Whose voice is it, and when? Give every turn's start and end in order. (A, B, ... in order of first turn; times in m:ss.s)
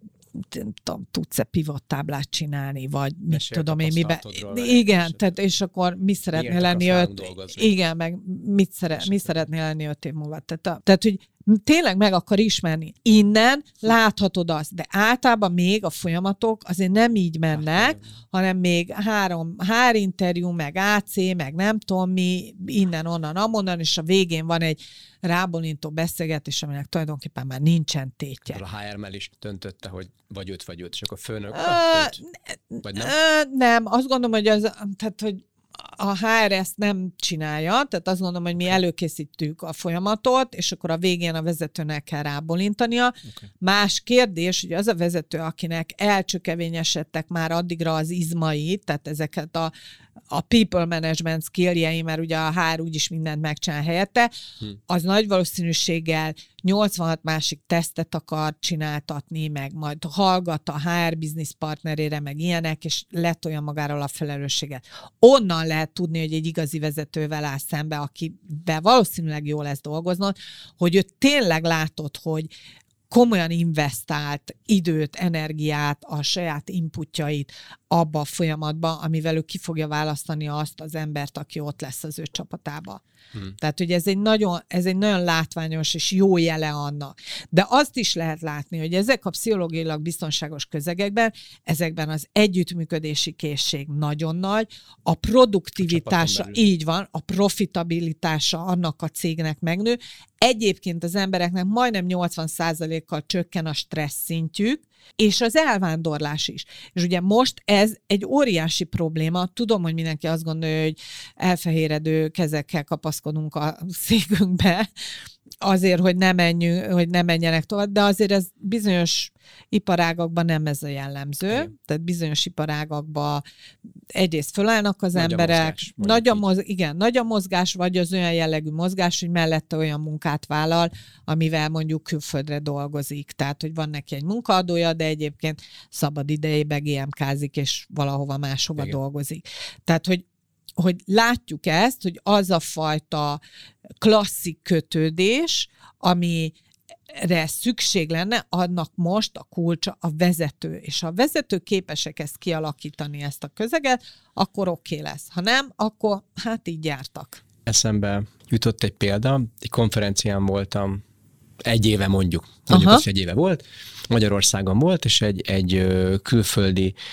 0:00.4-0:28.6 A
0:03.3-0:05.2 B
0:06.3-0:07.7 B
0:09.0-0:09.4 B
0:17.5-0:18.0 B
0:28.5-0:32.2 B
0:31.5-0:49.7 A
0:32.8-0:33.1 B
0:50.3-0:54.3 A
0:54.9-1:12.5 A
1:13.1-1:23.0 A
1:23.6-1:54.9 A
1:35.8-1:36.6 B
1:55.6-2:03.4 A
2:04.1-2:20.2 A
2:05.1-2:06.5 B
2:20.8-2:23.4 A
2:24.0-2:26.6 A
2:27.1-2:37.4 A
2:37.6-2:41.0 B
2:41.6-2:46.9 B
2:42.7-2:43.0 A